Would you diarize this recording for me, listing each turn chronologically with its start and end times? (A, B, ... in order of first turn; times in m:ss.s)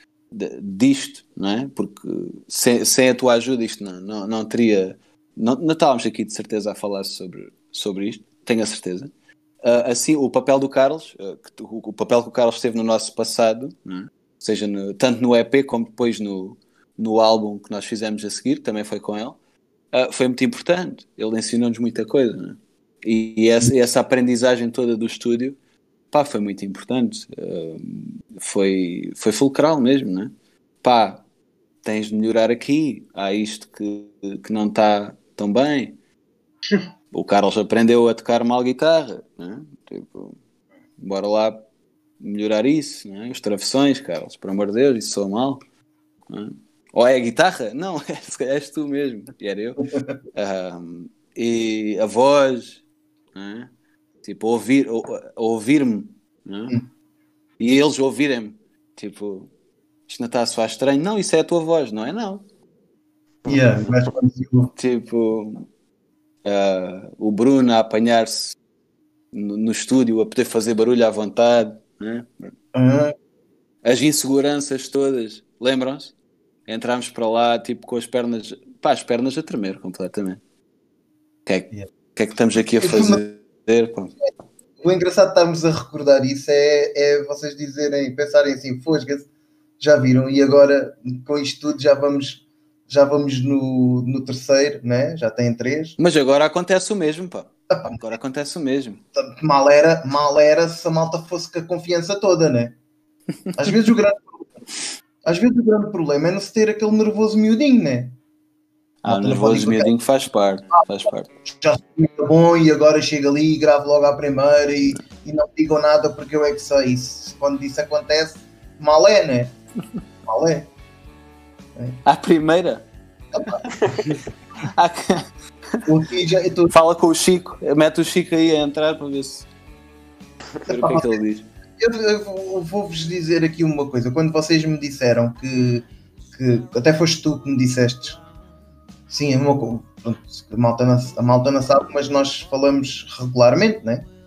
0:00.3-0:19.4 A
0:19.9-0:25.6 A
0:26.1-0:31.2 A
0:31.8-0:36.0 A
0:37.1-0:40.4 A
0:41.0-0:41.6 A
0:42.2-0:45.6 A
0:46.3-0:52.8 A
0:53.3-0:53.7 A
0:54.2-0:56.7 A
0:57.6-0:59.5 A
1:00.1-1:02.4 A
1:03.4-1:04.7 B
1:04.8-1:05.7 A
1:06.4-1:08.6 A
1:09.3-1:12.5 A
1:12.7-1:13.1 B
1:13.8-1:16.1 A
1:16.7-1:20.4 A
1:21.4-1:24.1 A
1:22.7-1:23.2 B
1:24.8-1:29.3 B
1:29.8-1:36.0 B
1:36.0-1:39.0 A
1:37.7-1:38.0 B
1:39.1-1:42.7 B
1:43.5-1:44.6 B
1:45.2-1:48.1 B
1:49.0-1:51.3 A
1:49.0-1:49.9 B
1:51.5-1:59.5 B
2:00.2-2:00.7 B
2:01.8-2:02.0 B
2:02.0-2:02.8 A
2:03.3-2:03.7 B
2:04.6-2:05.8 A
2:05.8-2:06.7 B
2:06.7-2:09.5 A
2:10.6-2:11.4 A
2:10.7-2:11.2 B
2:11.8-2:18.2 B
2:19.1-2:24.0 B